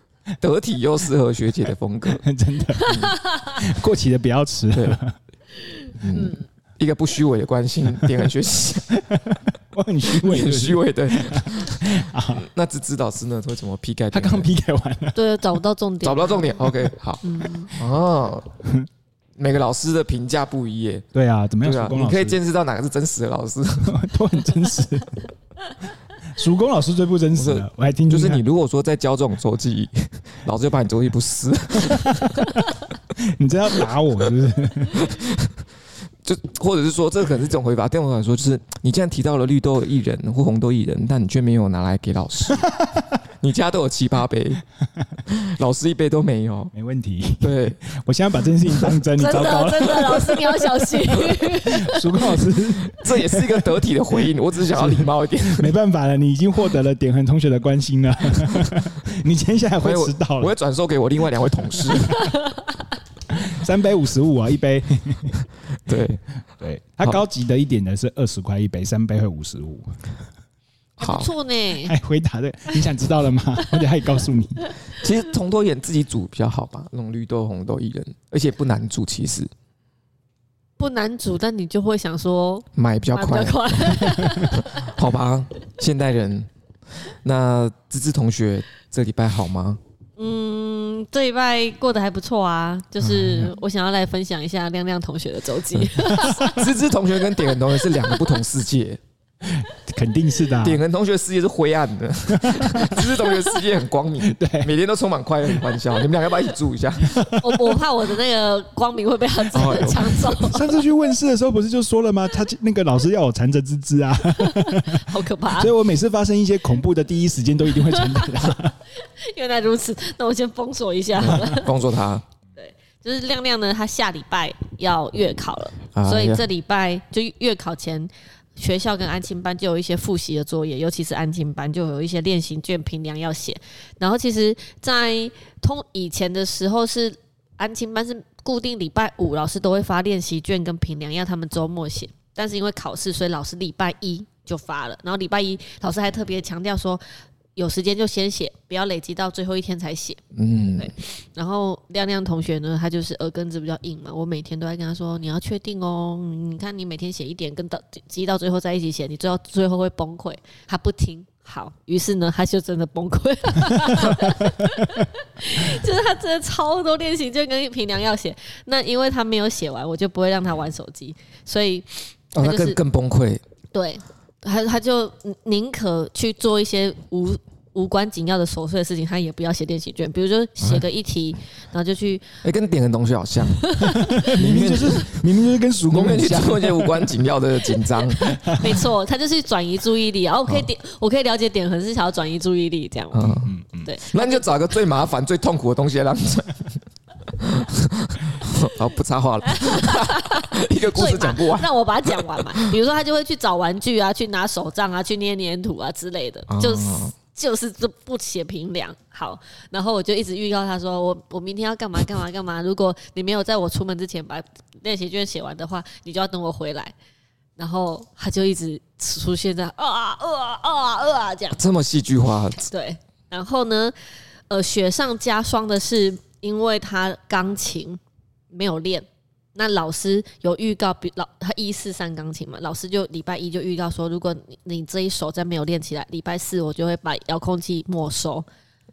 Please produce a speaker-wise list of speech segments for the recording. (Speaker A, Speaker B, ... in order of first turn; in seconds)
Speaker A: 0.4-2.2, 2.9-3.1, 4.7-5.0, 6.0-8.9, 10.2-14.5, 16.0-18.5, 19.4-21.1, 21.6-23.9, 27.3-32.4, 34.9-35.5, 36.2-42.7, 43.4-44.6, 45.3-46.7, 47.4-47.8, 52.9-55.7, 59.8-62.2, 65.8-66.2, 71.0-71.3, 74.9-79.5, 82.8-86.5, 87.0-89.8, 96.5-99.0, 100.6-107.2, 109.5-110.3, 121.2-122.2, 125.9-126.4, 150.3-150.9, 172.3-173.4, 182.4-183.6, 184.3-185.1, 185.9-188.3, 193.1-193.5, 194.1-196.8, 197.3-201.7, 206.5-207.1, 221.6-222.7
Speaker B: 2.0-5.2, 8.9-12.4, 14.1-15.4, 18.6-18.9, 21.1-22.4, 23.8-25.2, 26.2-28.4, 33.2-35.0, 42.7-43.0, 46.7-50.6, 51.6-54.2, 54.7-60.5, 63.3-65.4, 66.6-70.0, 71.8-74.7, 93.1-93.4, 96.0-96.5, 99.4-100.8, 102.3-103.1, 104.2-104.7, 107.0-107.8, 110.4-118.8, 121.3-121.5, 183.9-187.1, 188.2-188.8, 193.3-193.9
Speaker C: 2.9-3.2, 6.1-6.4, 15.1-16.6, 17.2-17.7, 49.1-52.2, 71.0-71.9, 80.8-84.9, 90.2-96.7, 98.1-98.3, 107.3-110.8, 114.4-115.7, 117.8-121.7, 122.6-147.0, 147.6-150.2, 150.8-172.8, 173.7-182.4, 183.6-184.2, 188.2-194.6, 199.4-216.9, 217.6-221.6, 222.7-223.9, 224.5-228.0, 228.5-238.4